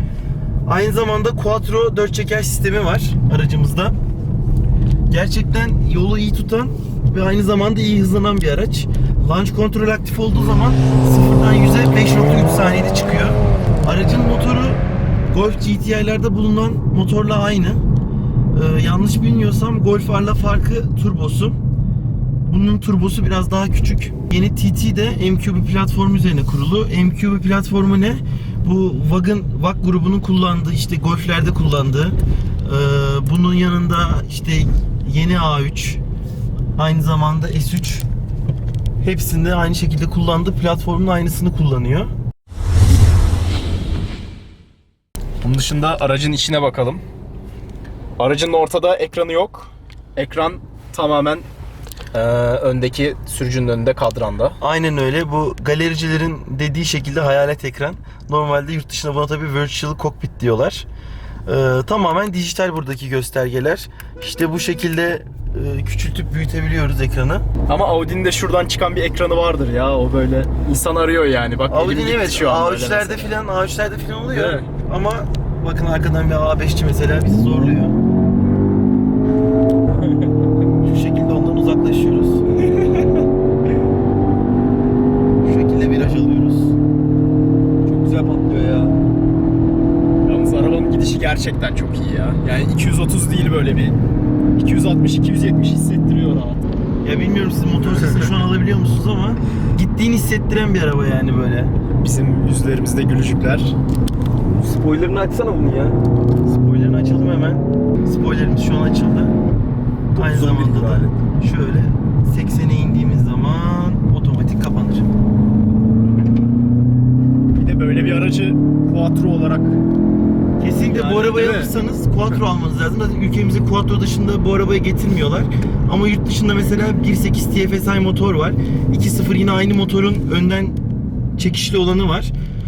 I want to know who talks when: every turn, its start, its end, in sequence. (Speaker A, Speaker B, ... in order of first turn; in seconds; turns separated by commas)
Speaker A: 0.7-4.0, Speaker A: 5.1-17.8, Speaker A: 18.5-21.6, Speaker A: 22.4-36.0, Speaker A: 36.8-38.0, Speaker A: 39.0-42.1, Speaker B: 45.4-47.0, Speaker B: 48.2-51.5, Speaker B: 52.1-54.6, Speaker A: 54.6-60.9, Speaker A: 61.5-67.5, Speaker B: 67.7-73.3, Speaker A: 71.7-78.0, Speaker B: 74.3-74.7, Speaker B: 80.0-80.3, Speaker A: 80.8-82.4, Speaker B: 82.7-83.0, Speaker A: 85.4-86.8, Speaker C: 87.9-88.9, Speaker B: 90.2-94.0, Speaker B: 94.6-96.7, Speaker A: 97.0-101.7, Speaker B: 97.8-98.3, Speaker B: 102.0-103.8, Speaker C: 104.5-106.0, Speaker A: 106.4-109.3, Speaker C: 110.1-111.2, Speaker A: 110.2-115.0, Speaker B: 117.5-119.8, Speaker A: 120.6-130.8, Speaker B: 120.8-121.7, Speaker A: 131.4-132.3